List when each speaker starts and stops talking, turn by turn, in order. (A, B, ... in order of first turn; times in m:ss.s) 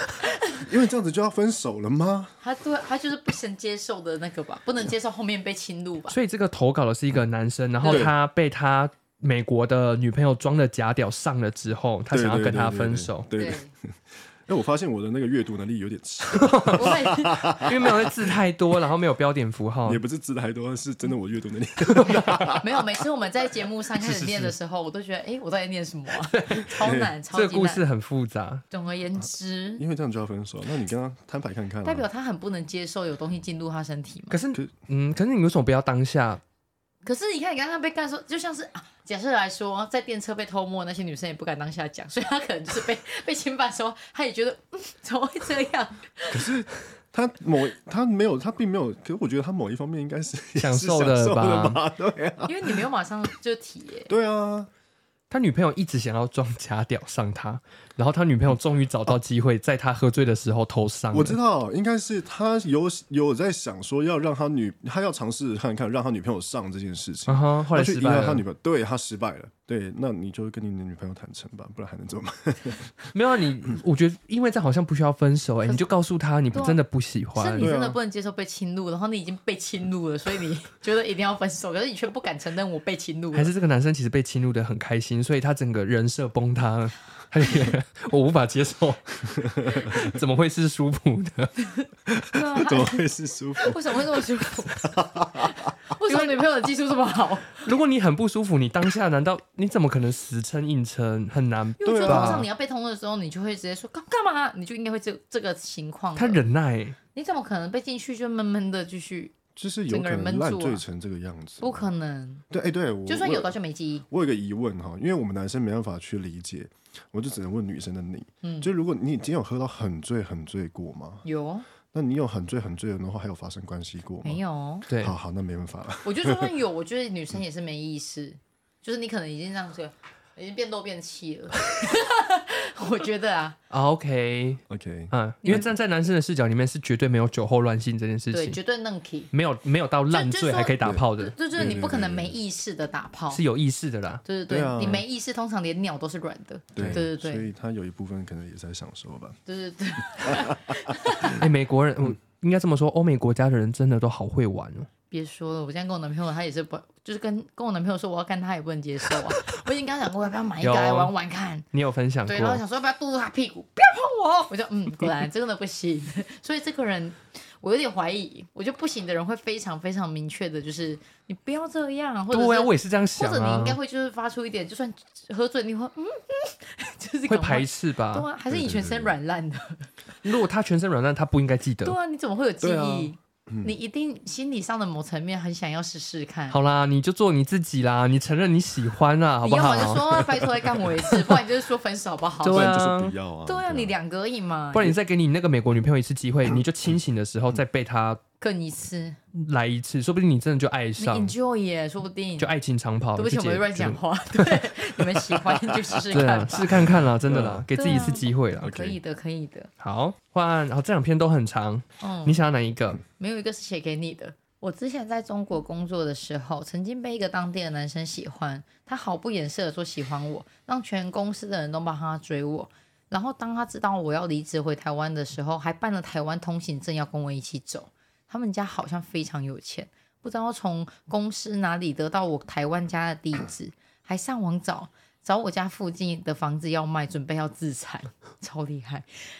0:00.2-0:00.6 A
0:00.5-0:02.4 B
0:02.4-0:06.2 A
0:06.1-0:13.3 C
0:07.8-0:08.1 A
0:07.9-0:08.1 B
0:12.1-0:18.3 B
0:13.3-0:13.7 A
0:16.3-0:20.0 C
0:16.7-0:17.8 A
0:19.8-0:23.0 B
0:21.9-0:22.5 C
0:22.5-0:27.8 A
0:24.0-0:24.5 C
0:26.3-0:26.7 C
0:26.7-0:27.1 B
0:27.3-0:28.6 C
0:28.7-0:29.8 A
0:29.8-0:32.1 B
0:31.8-0:34.4 A
0:34.3-0:36.4 C
0:37.0-0:46.5 A
0:46.3-0:52.8 B
0:50.6-0:51.8 C
0:52.4-0:54.1 A
0:54.1-0:54.7 B
0:55.3-1:01.4 C
1:01.1-1:13.1 B
1:07.3-1:08.4 C
1:13.1-1:17.7 C
1:16.5-1:16.8 A
1:17.3-1:23.5 A
1:17.6-1:18.0 B
1:23.3-1:31.6 C
1:29.4-1:30.1 B
1:31.7-1:33.0 A
1:32.1-1:34.2 B
1:33.6-1:37.6 A
1:35.0-1:35.5 B
1:37.6-1:42.5 C
1:41.8-1:46.4 A
1:41.8-1:42.5 B
1:46.2-1:47.0 C
1:47.1-1:49.3 A
1:49.6-1:51.9 B
1:49.9-1:50.8 A
1:51.6-1:52.4 A
1:52.5-1:53.5 B
1:53.1-1:54.0 A
1:54.1-2:01.2 B
1:58.4-1:58.7 A
2:01.2-2:01.6 A
2:01.9-2:06.6 B
2:04.2-2:04.9 A
2:04.9-2:05.2 C
2:06.0-2:13.6 A
2:13.7-2:18.6 C
2:14.7-2:15.7 B
2:15.4-2:15.7 A
2:18.3-2:19.3 A
2:19.3-2:21.3 C
2:20.1-2:23.4 A
2:20.8-2:22.4 B
2:23.3-2:24.2 C
2:24.2-2:27.5 A
2:24.5-2:25.0 B
2:26.7-2:29.4 B
2:26.8-2:27.0 C
2:29.5-2:31.5 A
2:30.0-2:31.4 B
2:31.3-2:34.9 C
2:35.1-2:41.7 A
2:40.6-2:41.1 C
2:41.7-2:42.6 C
2:42.3-2:59.9 A
2:52.3-2:53.8 C
2:57.3-2:58.3 C
2:58.5-2:59.2 B
3:00.2-3:02.0 C
3:01.8-3:06.6 A
3:02.6-3:03.7 B
3:06.5-3:10.2 C
3:09.4-3:12.8 A
3:12.4-3:13.1 C
3:12.5-3:14.0 B
3:13.4-3:14.9 A
3:14.7-3:18.2 C
3:18.4-3:19.2 A
3:19.3-3:21.3 C
3:21.0-3:22.5 A
3:22.4-3:24.7 C
3:23.2-3:26.9 A
3:25.6-3:26.0 B
3:26.1-3:28.7 C
3:26.8-3:29.0 B
3:27.8-3:29.7 A
3:29.8-3:33.0 C
3:32.0-3:32.4 A
3:33.2-3:59.1 A